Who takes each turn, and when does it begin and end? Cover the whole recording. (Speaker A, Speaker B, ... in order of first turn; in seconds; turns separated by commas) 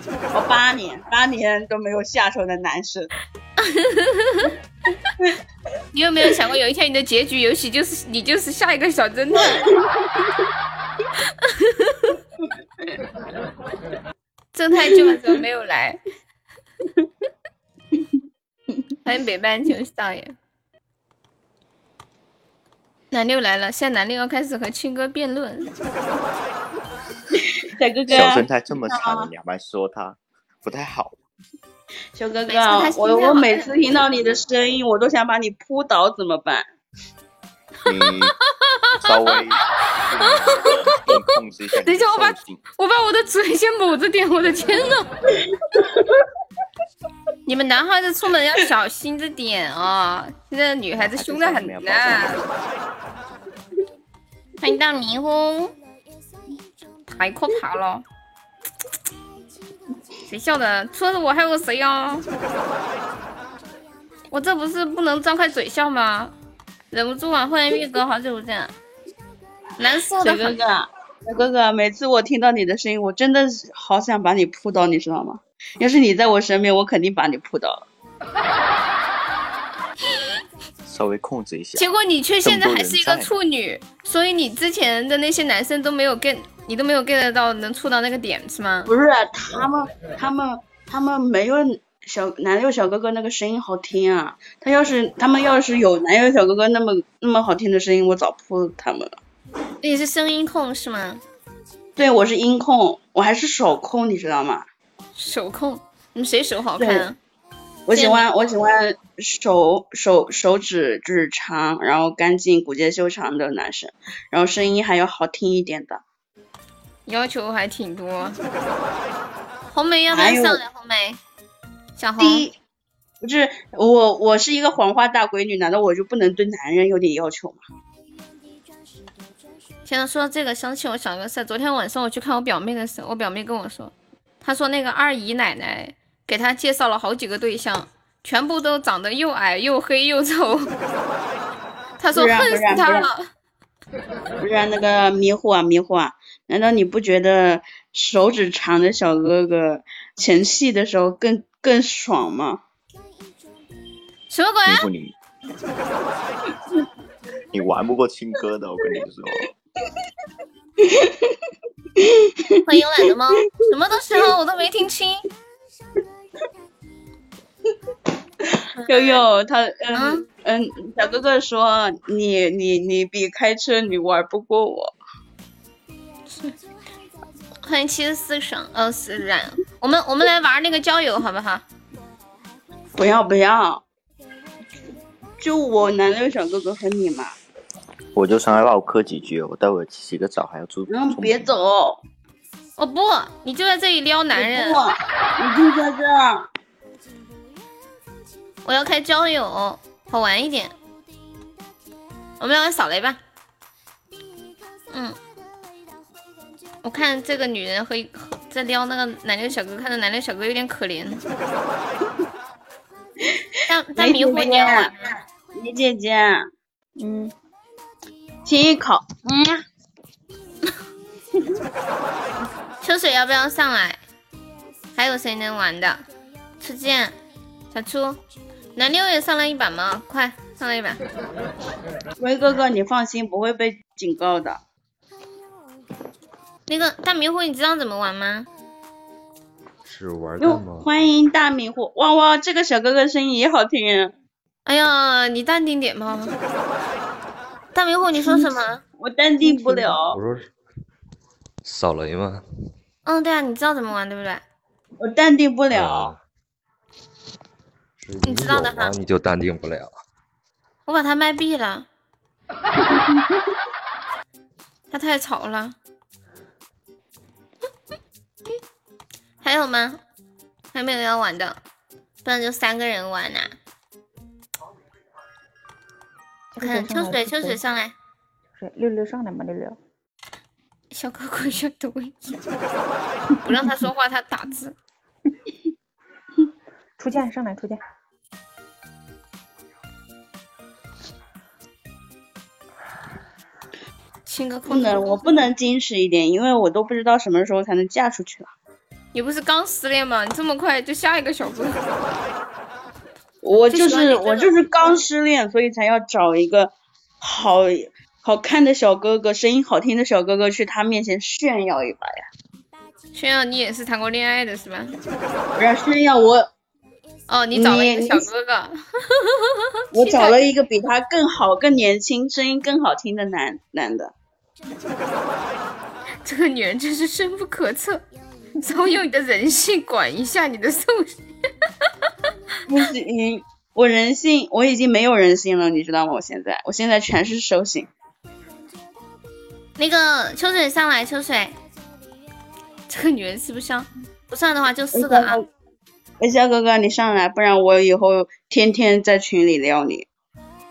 Speaker A: 0.3-3.1, Speaker B: 3.6-4.5, Speaker B: 5.9-9.7, Speaker A: 9.5-10.4, Speaker B: 11.6-12.2, Speaker B: 14.5-16.0, Speaker B: 19.0-20.3, Speaker B: 23.1-25.7, Speaker A: 27.4-29.3, Speaker C: 28.1-31.2, Speaker A: 32.1-36.7, Speaker B: 32.5-33.7, Speaker C: 37.9-38.4, Speaker B: 38.6-39.4, Speaker C: 39.0-42.6, Speaker B: 40.2-41.2, Speaker B: 41.8-45.1, Speaker A: 45.4-45.9, Speaker B: 47.5-52.4, Speaker C: 50.9-52.5, Speaker B: 54.6-55.7, Speaker B: 57.1-58.0, Speaker B: 60.2-62.2, Speaker B: 64.3-66.3, Speaker B: 66.9-68.7, Speaker B: 69.8-70.6, Speaker A: 70.2-77.9, Speaker C: 80.8-83.3, Speaker B: 81.8-88.9, Speaker A: 88.9-99.2, Speaker B: 99.8-101.2, Speaker A: 102.0-104.7, Speaker B: 105.2-107.2, Speaker A: 106.8-107.1, Speaker A: 107.9-116.0, Speaker B: 107.9-108.2, Speaker B: 117.1-118.4, Speaker B: 119.7-121.2, Speaker A: 120.1-120.6, Speaker B: 122.0-122.5, Speaker A: 122.2-122.6, Speaker A: 123.2-127.6, Speaker B: 129.9-140.7, Speaker B: 142.0-143.3, Speaker A: 142.1-143.1, Speaker A: 144.4-152.6, Speaker B: 154.3-154.8, Speaker C: 154.7-155.1, Speaker C: 157.5-159.5, Speaker A: 160.8-161.4, Speaker A: 162.0-162.5, Speaker B: 162.6-165.2, Speaker B: 168.8-169.2, Speaker A: 168.8-174.9, Speaker B: 169.9-170.2, Speaker B: 177.6-181.6, Speaker A: 182.9-183.8, Speaker A: 185.4-187.3, Speaker C: 188.2-191.5, Speaker A: 190.9-192.0, Speaker B: 192.8-194.8, Speaker A: 194.3-196.5, Speaker B: 198.7-200.8, Speaker B: 202.4-203.2, Speaker B: 204.9-205.2, Speaker B: 206.8-211.2, Speaker A: 213.3-216.5, Speaker B: 213.7-215.1, Speaker D: 217.0-217.3, Speaker A: 218.4-219.6, Speaker B: 222.8-224.0, Speaker B: 224.9-226.0, Speaker B: 226.6-227.2, Speaker B: 227.7-228.2, Speaker B: 228.8-231.0, Speaker A: 232.2-234.6, Speaker B: 236.7-238.5, Speaker E: 239.8-240.8, Speaker A: 240.4-244.1, Speaker B: 244.7-246.3, Speaker B: 247.7-248.8, Speaker A: 249.0-250.2, Speaker E: 250.0-250.5, Speaker E: 251.6-252.4, Speaker B: 253.1-254.4, Speaker A: 255.0-256.1, Speaker E: 255.7-256.2, Speaker E: 258.0-259.9, Speaker B: 258.2-258.9, Speaker B: 260.9-261.9, Speaker B: 264.9-265.8, Speaker B: 269.4-270.0, Speaker B: 270.7-271.6, Speaker B: 272.2-273.5, Speaker D: 276.5-277.6, Speaker B: 276.6-277.9, Speaker D: 278.5-279.8, Speaker B: 280.9-282.3, Speaker B: 283.4-284.8, Speaker D: 287.0-287.8, Speaker B: 294.2-295.2, Speaker A: 294.7-298.5, Speaker B: 299.1-301.8, Speaker A: 303.4-312.3, Speaker B: 303.7-304.5, Speaker B: 313.1-314.9, Speaker A: 315.6-316.5, Speaker B: 317.3-320.4, Speaker A: 317.5-318.3, Speaker A: 319.9-324.1, Speaker B: 326.2-328.0, Speaker B: 328.6-331.1, Speaker A: 332.7-337.9, Speaker B: 339.8-341.6, Speaker B: 342.9-345.4, Speaker A: 344.9-345.5, Speaker A: 346.2-350.1